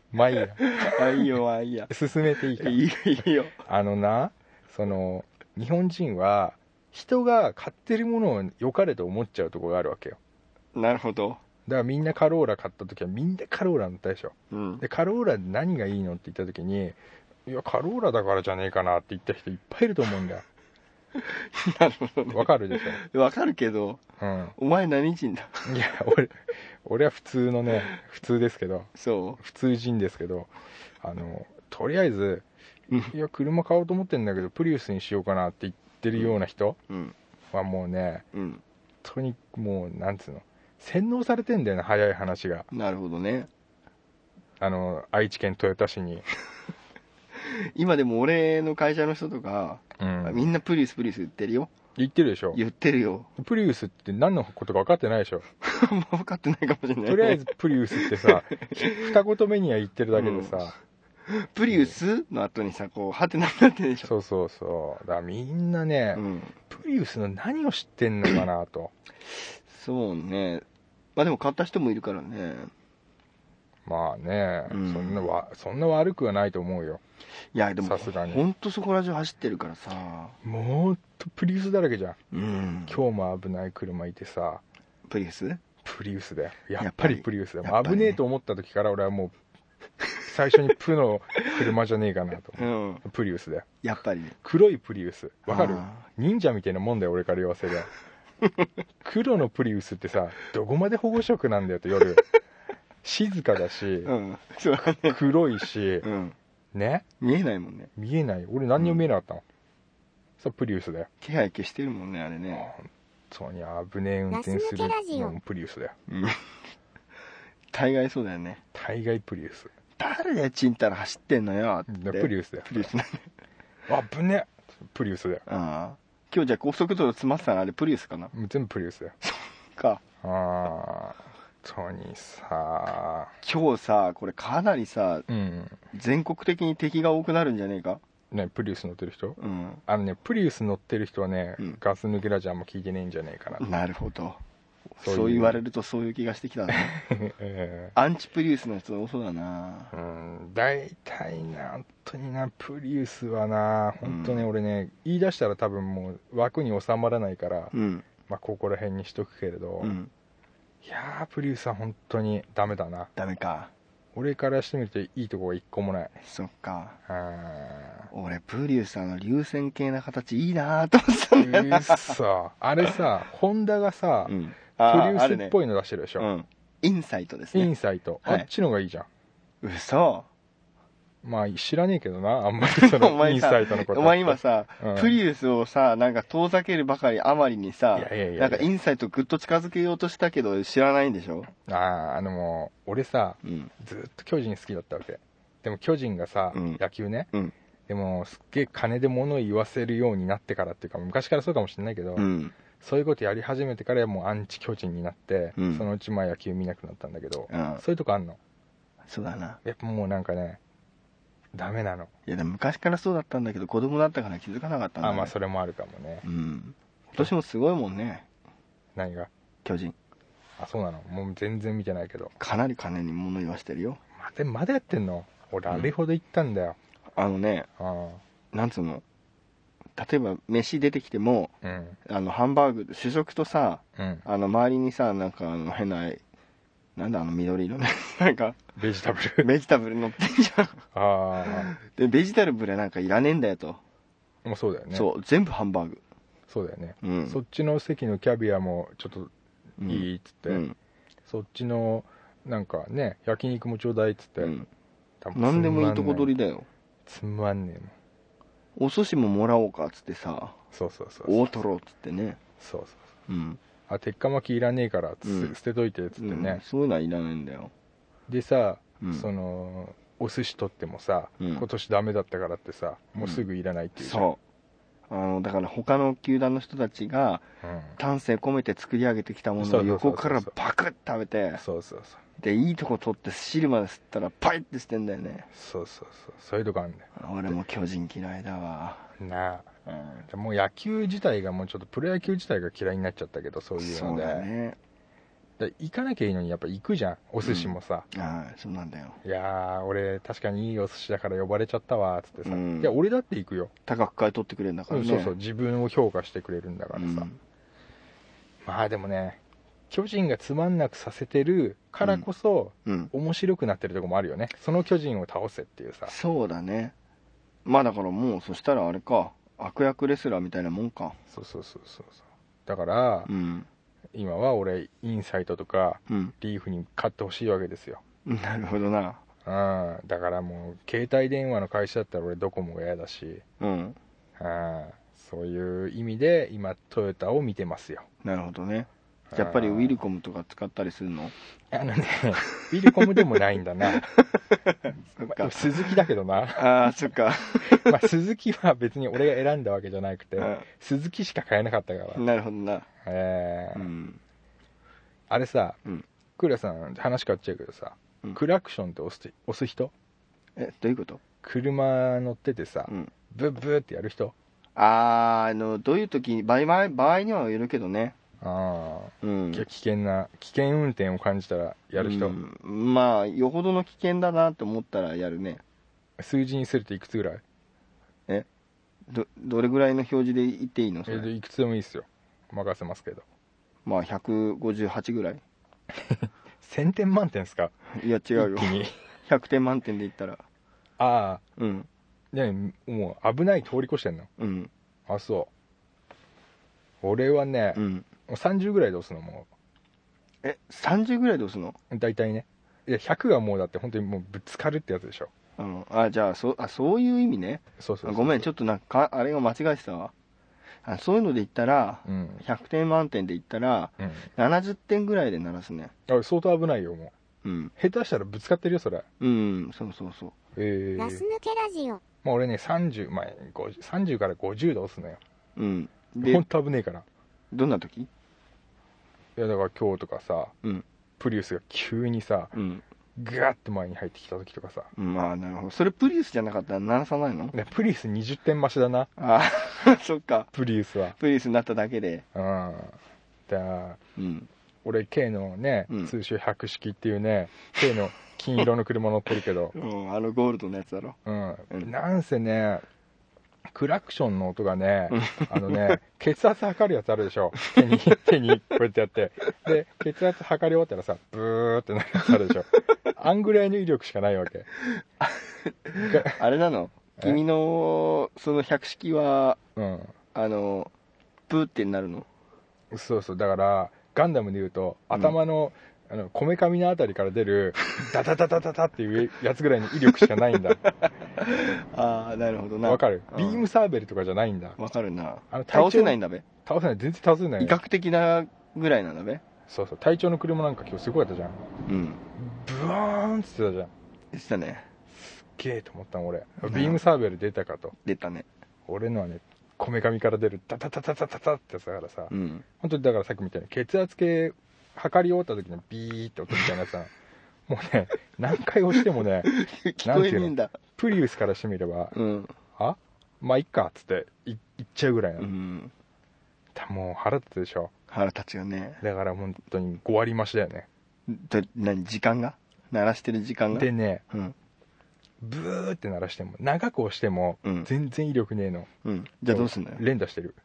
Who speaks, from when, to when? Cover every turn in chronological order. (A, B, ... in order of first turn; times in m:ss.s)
0:00.1-0:00.7 A
0:00.6-0:01.9 B
0:01.9-0:02.8 A
0:02.6-0:03.5 B
0:03.6-0:10.2 A
0:10.7-0:11.4 B
0:11.6-0:20.4 A
0:14.5-0:14.8 B
0:21.2-0:24.0 B
0:22.3-0:23.0 A
0:24.2-0:24.5 A
0:24.6-0:25.7 B
0:25.6-0:30.5 A
0:28.9-0:29.4 B
0:31.0-0:32.4 A
0:33.1-0:36.8 A
0:36.9-0:37.1 B
0:37.5-0:38.2 A
0:38.3-0:38.6 B
0:39.0-0:42.7 A
0:42.7-0:43.5 B
0:44.6-0:46.2 A
0:47.4-0:51.7 B
0:50.0-0:50.5 A
0:52.0-0:52.6 A
0:52.5-0:53.3 B
0:53.4-0:55.4 A
0:55.6-0:59.1 B
0:57.0-1:00.8 A
1:00.1-1:00.7 B
1:01.3-1:04.1 B
1:04.0-1:08.9 A
1:06.1-1:06.5 B
1:09.7-1:10.6 B
1:11.2-1:12.7 B
1:13.8-1:17.0 A
1:14.7-1:15.2 B
1:17.5-1:20.4 B
1:17.8-1:18.4 A
1:20.4-1:22.2 A
1:22.3-1:23.0 B
1:22.9-1:24.6 A
1:25.1-1:25.6 B
1:25.8-1:29.3 A
1:26.8-1:28.2 B
1:30.2-1:33.8 A
1:32.6-1:33.0 B
1:33.8-1:34.3 B
1:34.4-1:37.9 A
1:35.4-1:36.0 B
1:38.4-1:38.7 B
1:39.0-1:42.2 A
1:43.0-1:44.1 A
1:44.0-1:45.3 B
1:45.0-1:46.1 A
1:46.0-1:46.4 B
1:46.7-1:47.0 A
1:47.2-1:47.9 B
1:48.0-1:49.4 A
1:48.8-1:49.0 B
1:50.4-1:51.1 A
1:51.2-1:52.7 B
1:52.5-1:55.9 A
1:54.3-1:55.4 C
1:56.1-1:56.4 B
1:57.7-1:58.6 B
1:58.7-1:59.7 A
2:00.0-2:03.3 B
2:01.9-2:02.9 A
2:03.9-2:05.4 A
2:05.5-2:08.3 B
2:08.3-2:09.2 A
2:09.2-2:10.0 B
2:10.2-2:13.3 A
2:13.4-2:15.2 B
2:15.3-2:15.8 A
2:15.9-2:18.0 B
2:18.3-2:23.6 A
2:19.4-2:19.8 B
2:23.6-2:24.4 B
2:25.0-2:27.0 B
2:25.0-2:25.6 A
2:26.8-2:27.9 A
2:27.9-2:29.9 B
2:29.9-2:37.7 A
2:34.0-2:34.4 B
2:37.7-2:38.0 B
2:38.3-2:40.0 A
2:39.8-2:40.1 B
2:40.8-2:43.1 A
2:43.2-2:43.7 B
2:44.1-2:46.1 A
2:46.2-2:47.0 B
2:47.1-2:48.1 A
2:48.1-2:52.2 B
2:51.4-2:56.3 A
2:54.2-2:55.5 B
2:56.2-2:57.7 B
2:57.5-2:59.1 A
2:59.6-3:00.3 B
3:01.2-3:05.2 A
3:02.7-3:11.5 B
3:07.9-3:08.7 A
3:11.6-3:17.3 A
3:13.4-3:13.7 B
3:16.5-3:16.8 B
3:17.9-3:22.3 A
3:22.2-3:22.5 B
3:22.8-3:28.4 A
3:25.6-3:25.9 B
3:27.5-3:27.8 B
3:29.1-3:29.6 B
3:29.6-3:30.6 A
3:31.5-3:32.1 A
3:32.3-3:35.3 B
3:35.0-3:36.2 A
3:36.2-3:38.2 B
3:38.9-3:39.3 A
3:39.6-3:39.9 B
3:40.6-3:42.3 A
3:42.4-3:44.0 B
3:44.2-3:46.8 A
3:47.2-3:47.7 B
3:47.8-3:48.2 A
3:48.5-3:49.0 B
3:50.0-3:51.5 B
3:51.6-3:52.0 A
3:52.0-3:56.2 B
3:54.0-3:54.2 A
3:57.0-3:58.6 B
3:58.8-3:59.5 A
3:59.4-4:00.8 B
4:00.9-4:01.7 A
4:01.5-4:03.8 B
4:04.4-4:05.1 A
4:04.9-4:06.0 B
4:06.5-4:09.3 A
4:07.0-4:07.4 B
4:09.8-4:10.7 B
4:09.9-4:10.6 A
4:11.3-4:14.5 A
4:14.4-4:14.7 B
4:15.2-4:16.3 A
4:15.3-4:16.7 B
4:17.0-4:17.9 A
4:18.8-4:20.6 B
4:20.7-4:21.4 A
4:21.2-4:22.4 B
4:22.6-4:23.0 A
4:23.3-4:23.6 B
4:23.9-4:26.6 A
4:25.2-4:25.6 B
4:26.2-4:27.7 B
4:28.3-4:34.3 A
4:29.0-4:29.3 B
4:31.4-4:31.6 B
4:34.0-4:34.4 B
4:35.1-4:37.4 B
4:37.6-4:38.0 A
4:38.0-4:41.6 B
4:39.6-4:40.5 A
4:41.6-4:42.2 A
4:42.4-4:45.5 B
4:45.5-4:47.5 A
4:47.2-4:49.1 B
4:49.2-4:49.7 A
4:49.8-4:50.3 B
4:50.3-4:54.5 A
4:53.8-4:54.8 B
4:55.6-4:58.1 A
4:57.4-4:59.2 B
4:59.2-5:03.7 A
5:02.4-5:02.9 B
5:03.9-5:05.3 B
5:04.9-5:07.3 A
5:06.9-5:07.4 B
5:08.6-5:09.4 A
5:09.9-5:16.1 A
5:12.0-5:12.3 B
5:12.8-5:13.1 B
5:16.1-5:16.9 B
5:17.6-5:21.2 B
5:21.3-5:23.3 A
5:23.3-5:23.7 B
5:24.1-5:28.0 A
5:26.1-5:26.3 B
5:28.2-5:29.2 B
5:29.4-5:33.4 A
5:33.6-5:34.0 B
5:34.4-5:38.1 A
5:38.2-5:41.3 B
5:39.3-5:40.0 A
5:41.7-5:44.0 A
5:42.6-5:43.2 B
5:43.9-5:45.9 B
5:45.3-5:47.0 A
5:46.6-5:48.0 B
5:47.7-5:52.2 A
5:50.4-5:50.6 B
5:52.2-5:52.8 B
5:53.0-5:53.9 A
5:53.7-5:54.2 B
5:55.3-5:55.8 A
5:56.4-5:59.9 A
6:00.6-6:01.2 B
6:01.4-6:04.3 A
6:04.8-6:08.2 B
6:08.4-6:12.4 A
6:09.2-6:09.6 B
6:12.0-6:15.6 B
6:16.2-6:17.4 A
6:19.1-6:21.3 B
6:21.1-6:23.2 A
6:23.8-6:25.4 B
6:26.0-6:27.8 A
6:27.9-6:30.4 B
6:28.3-6:28.9 A
6:31.0-6:31.4 A
6:31.6-6:31.9 B
6:32.3-6:34.3 A
6:34.4-6:34.7 B
6:35.1-6:35.5 A
6:37.0-6:39.5 A
6:37.7-6:38.0 B
6:40.4-6:41.8 B
6:41.9-6:45.3 A
6:45.6-6:50.1 B
6:47.8-6:48.4 A
6:50.8-6:55.9 B
6:52.0-6:52.4 A
6:54.0-6:54.3 A
6:56.1-6:57.1 A
6:57.4-6:57.7 B
6:57.8-6:59.0 A
6:59.2-7:00.3 B
7:00.6-7:01.2 A
7:01.0-7:02.0 C
7:02.2-7:05.2 A
7:05.6-7:06.4 B
7:06.2-7:07.0 A
7:07.5-7:08.1 B
7:09.4-7:10.5 A
7:11.2-7:12.6 A
7:12.5-7:12.8 B
7:13.2-7:14.9 A
7:15.0-7:17.5 B
7:17.5-7:19.1 A
7:19.2-7:20.5 B
7:20.5-7:21.2 A
7:21.2-7:22.2 B
7:22.3-7:22.9 A
7:23.5-7:24.0 A
7:24.2-7:24.5 B
7:24.8-7:29.7 A
7:25.9-7:26.1 B
7:29.7-7:31.2 B
7:31.2-7:32.8 A
7:33.7-7:44.7 A
7:35.1-7:36.0 B
7:45.2-7:49.6 B
7:46.0-7:46.4 A
7:49.8-7:50.1 A
7:50.3-7:50.9 B
7:51.5-7:52.3 B
7:52.9-8:00.8 A
8:00.8-8:03.6 B
8:02.8-8:04.8 A
8:04.8-8:06.4 B
8:05.5-8:07.8 A
8:07.6-8:09.4 B
8:09.7-8:11.7 A
8:11.8-8:12.2 B
8:12.4-8:13.9 A
8:14.3-8:14.8 B
8:15.1-8:17.9 A
8:16.6-8:17.0 B
8:18.0-8:18.4 B
8:18.9-8:27.1 A
8:22.3-8:22.6 B
8:27.7-8:32.2 A
8:29.4-8:30.7 B
8:32.1-8:32.5 B
8:32.8-8:35.5 A
8:35.4-8:35.9 B
8:36.7-8:37.9 A
8:38.1-8:39.0 B
8:39.0-8:40.9 A
8:41.3-8:44.5 B
8:43.7-8:44.2 A
8:45.4-8:48.9 A
8:47.6-8:47.9 B
8:49.0-8:50.0 B
8:49.5-8:50.6 A